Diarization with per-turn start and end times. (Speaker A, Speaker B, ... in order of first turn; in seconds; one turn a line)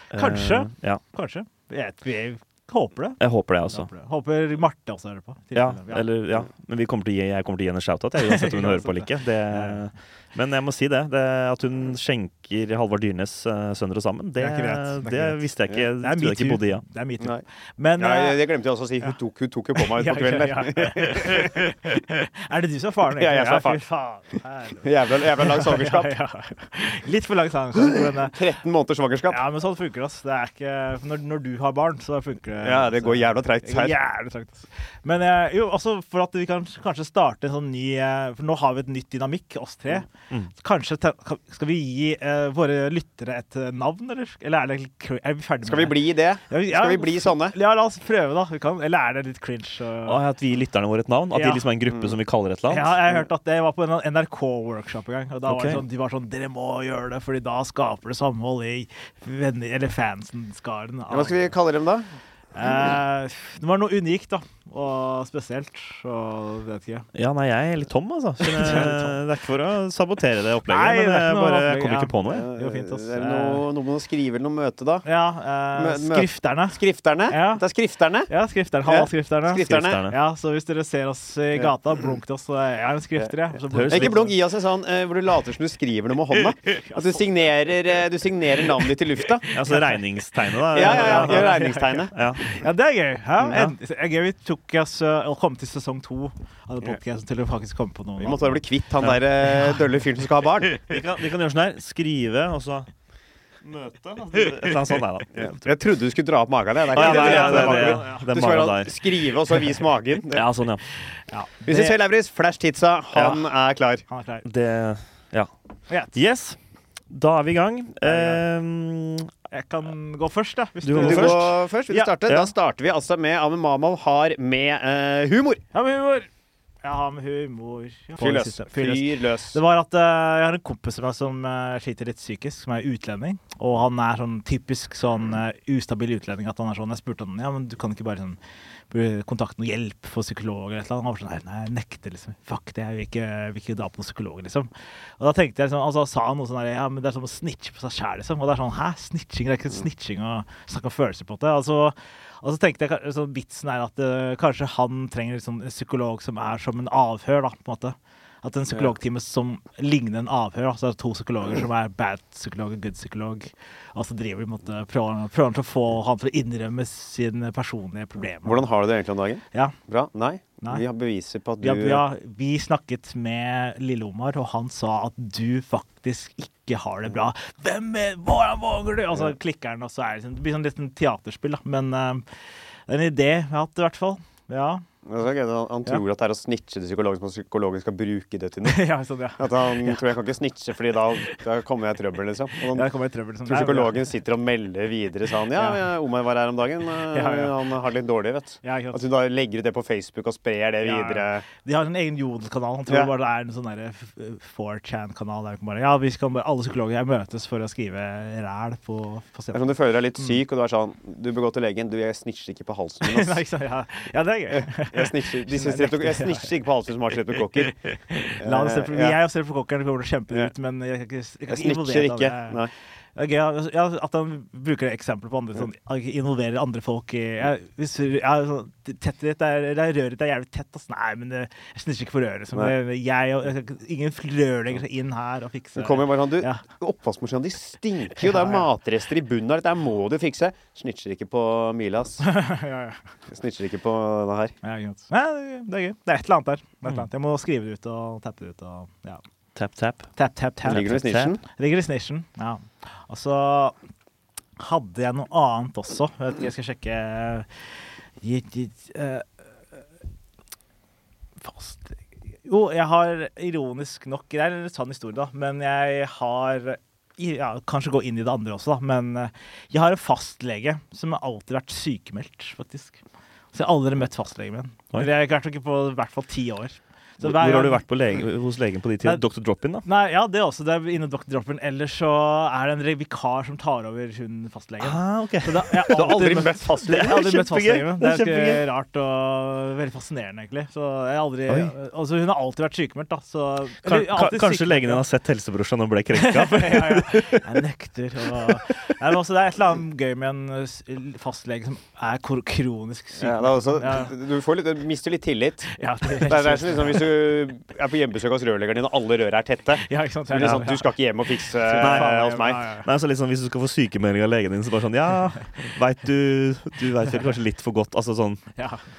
Speaker A: 0.1-1.0
Speaker B: 0.1-6.1
Speaker A: 3.2-3.9
Speaker A: 5.5-16.8
Speaker B: 8.2-9.8
Speaker B: 14.4-15.4
Speaker B: 16.0-18.4
Speaker C: 18.0-21.6
Speaker B: 19.8-28.4
Speaker C: 23.2-23.9
Speaker C: 24.8-26.1
Speaker C: 27.8-29.4
Speaker B: 29.3-50.2
Speaker C: 32.6-34.0
Speaker C: 45.6-47.5
Speaker A: 50.1-53.0
Speaker B: 51.3-51.7
Speaker C: 51.9-52.2
Speaker B: 52.7-61.5
Speaker A: 55.5-55.8
Speaker C: 61.1-62.1
Speaker B: 62.5-67.1
Speaker A: 67.2-72.5
Speaker B: 68.4-69.2
Speaker B: 70.7-73.6
Speaker C: 72.3-75.0
Speaker B: 75.0-77.6
Speaker C: 75.8-78.3
Speaker B: 78.3-84.3
Speaker C: 78.9-80.0
Speaker A: 79.6-80.2
Speaker A: 83.7-84.2
Speaker C: 83.9-89.5
Speaker B: 86.9-87.2
Speaker A: 89.5-92.4
Speaker B: 90.7-98.6
Speaker C: 90.7-92.1
Speaker A: 93.5-93.7
Speaker C: 98.2-100.9
Speaker A: 100.8-102.9
Speaker A: 103.6-105.5
Speaker C: 105.3-110.5
Speaker B: 106.9-108.2
Speaker A: 106.9-109.1
Speaker A: 110.3-110.8
Speaker B: 111.3-112.0
Speaker C: 111.7-114.0
Speaker A: 113.2-113.4
Speaker B: 114.1-114.5
Speaker A: 114.5-115.5
Speaker B: 115.9-116.2
Speaker A: 116.1-116.6
Speaker A: 117.1-119.3
Speaker B: 118.0-118.4
Speaker B: 119.5-122.1
Speaker A: 120.8-121.5
Speaker C: 121.0-125.6
Speaker B: 125.7-126.3
Speaker B: 126.8-138.4
Speaker C: 128.2-129.6
Speaker B: 138.9-168.7
Speaker C: 168.4-172.0
Speaker B: 171.6-182.2
Speaker B: 182.9-184.8
Speaker C: 185.0-188.8
Speaker B: 188.7-190.0
Speaker C: 189.4-192.9
Speaker B: 192.7-194.1
Speaker C: 193.5-201.4
Speaker B: 195.5-195.8
Speaker B: 197.1-197.6
Speaker B: 198.6-199.0
Speaker B: 200.8-210.4
Speaker C: 209.5-213.4
Speaker B: 213.0-216.5
Speaker C: 214.5-217.8
Speaker B: 218.1-222.6
Speaker C: 218.4-219.2
Speaker C: 221.5-222.7
Speaker B: 223.2-236.6
Speaker C: 235.8-242.2
Speaker B: 238.2-238.7
Speaker B: 242.2-243.0
Speaker C: 243.3-244.5
Speaker B: 244.6-249.2
Speaker A: 249.5-250.1
Speaker B: 250.2-253.8
Speaker C: 250.7-251.4
Speaker A: 250.7-251.3
Speaker B: 254.6-257.5
Speaker B: 258.2-259.8
Speaker B: 261.4-273.0
Speaker B: 273.5-277.8
Speaker A: 277.2-279.9
Speaker B: 279.8-295.0
Speaker A: 284.8-286.2
Speaker C: 285.9-287.1
Speaker A: 286.9-288.6
Speaker A: 291.5-291.7
Speaker A: 293.8-297.4
Speaker B: 296.1-304.1
Speaker C: 303.2-305.7
Speaker B: 305.7-307.1
Speaker C: 306.2-312.6
Speaker B: 309.9-310.9
Speaker B: 311.6-312.9
Speaker A: 311.8-312.2
Speaker A: 312.8-318.4
Speaker B: 318.6-318.8